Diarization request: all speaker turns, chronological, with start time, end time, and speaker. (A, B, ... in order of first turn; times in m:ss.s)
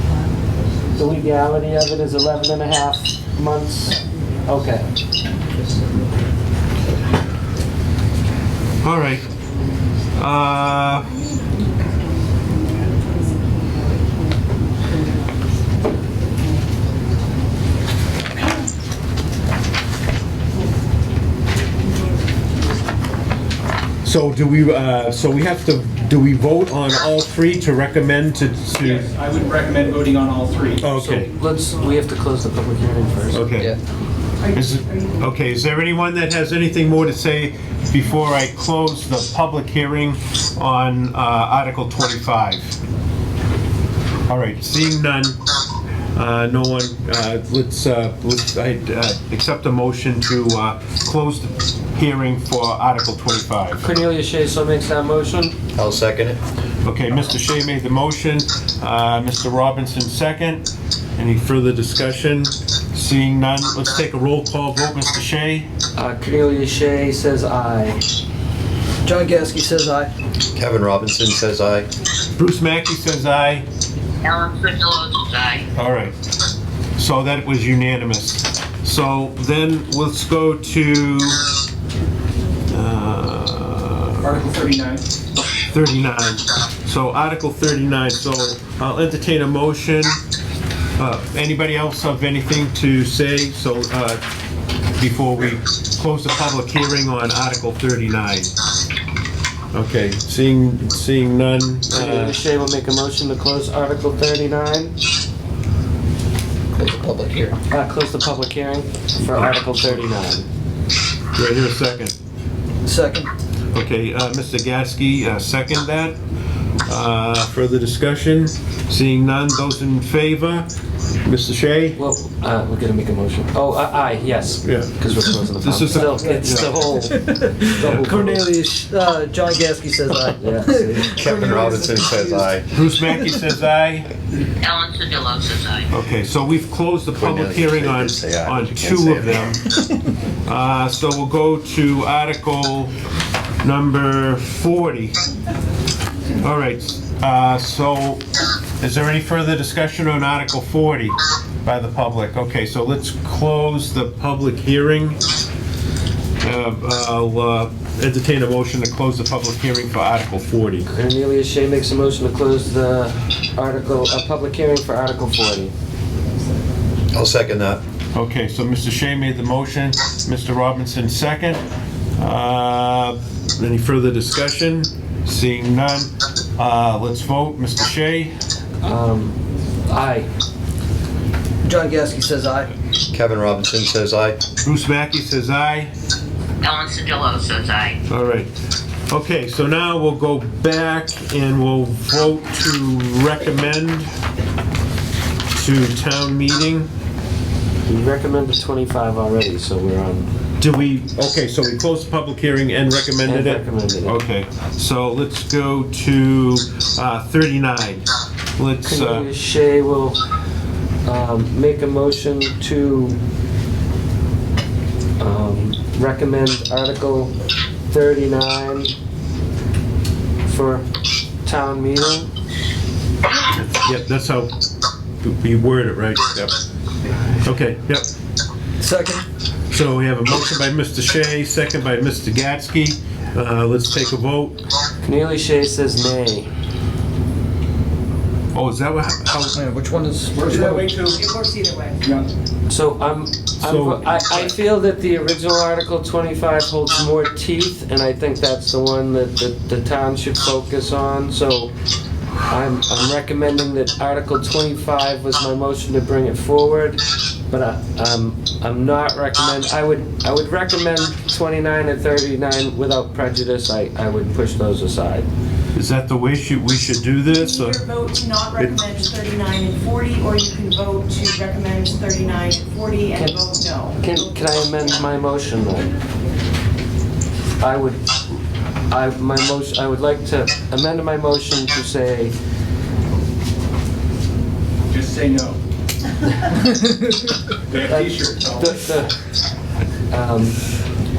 0:01.0-0:04.9 A
0:08.8-0:09.2 B
0:10.2-0:11.3 B
0:24.0-0:29.0 B
0:28.8-0:30.8 C
0:30.8-0:31.3 B
0:30.9-0:33.4 A
0:33.3-0:33.7 B
0:34.5-0:42.8 B
0:44.3-0:45.4 B
0:46.1-0:53.8 B
0:53.8-0:55.5 A
0:55.8-0:56.4 D
0:56.8-1:00.6 B
1:01.2-1:05.7 B
1:06.0-1:08.0 A
1:09.0-1:10.1 E
1:10.5-1:11.9 D
1:12.3-1:13.6 B
1:14.2-1:15.6 F
1:15.7-1:16.1 B
1:17.0-1:21.4 B
1:22.7-1:24.4 B
1:24.2-1:25.0 C
1:25.7-1:30.2 B
1:31.0-1:34.2 B
1:35.0-1:38.5 B
1:39.7-1:42.4 B
1:41.9-1:45.0 A
1:46.8-1:47.6 E
1:47.7-1:50.4 A
1:51.3-1:52.1 B
1:52.8-1:53.3 E
1:53.7-1:56.2 B
1:56.8-2:00.7 B
2:01.2-2:02.0 B
2:02.0-2:08.3 A
2:04.6-2:05.0 B
2:05.6-2:06.8 B
2:05.9-2:13.3 E
2:07.8-2:08.4 B
2:10.4-2:11.3 A
2:11.2-2:12.7 D
2:12.7-2:14.1 B
2:14.6-2:15.9 F
2:15.9-2:19.6 B
2:17.1-2:19.6 D
2:20.4-2:22.9 B
2:23.6-2:25.2 B
2:26.4-2:28.2 B
2:28.8-2:35.2 B
2:36.4-2:40.9 B
2:40.9-2:45.7 A
2:47.1-2:47.8 D
2:48.1-2:51.6 B
2:52.2-2:58.3 B
2:58.8-3:00.3 A
3:01.6-3:02.7 E
3:03.1-3:04.4 D
3:04.6-3:06.0 B
3:06.6-3:08.0 F
3:08.1-3:08.5 B
3:09.1-3:14.1 B
3:15.5-3:16.9 B
3:17.8-3:20.3 A
3:20.6-3:29.3 B
3:23.2-3:24.2 A
3:28.8-3:30.2 A
3:31.0-3:33.2 A
3:35.2-3:37.4 A
3:37.9-3:38.9 A
3:40.4-3:40.8 A
3:41.4-3:42.3 A
3:43.5-3:44.5 B
3:45.2-3:46.5 B
3:47.4-3:48.0 B
3:48.8-3:49.2 E
3:49.7-3:54.6 B
3:55.0-3:56.5 A
3:58.5-3:59.5 B
3:59.5-4:00.9 E
4:00.4-4:01.2 C
4:01.1-4:02.0 G
4:02.7-4:11.7 A
4:03.6-4:04.5 B
4:12.5-4:25.3 A
4:25.7-4:27.8 B
4:27.3-4:34.8 G
4:28.6-4:28.8 B
4:34.0-4:35.9 A
4:37.6-4:38.1 A
4:38.9-4:42.3 A
4:44.9-4:45.6 C
4:46.6-4:47.2 E
4:47.7-4:48.6 C
4:48.6-4:49.2 A
4:50.1-4:50.6 A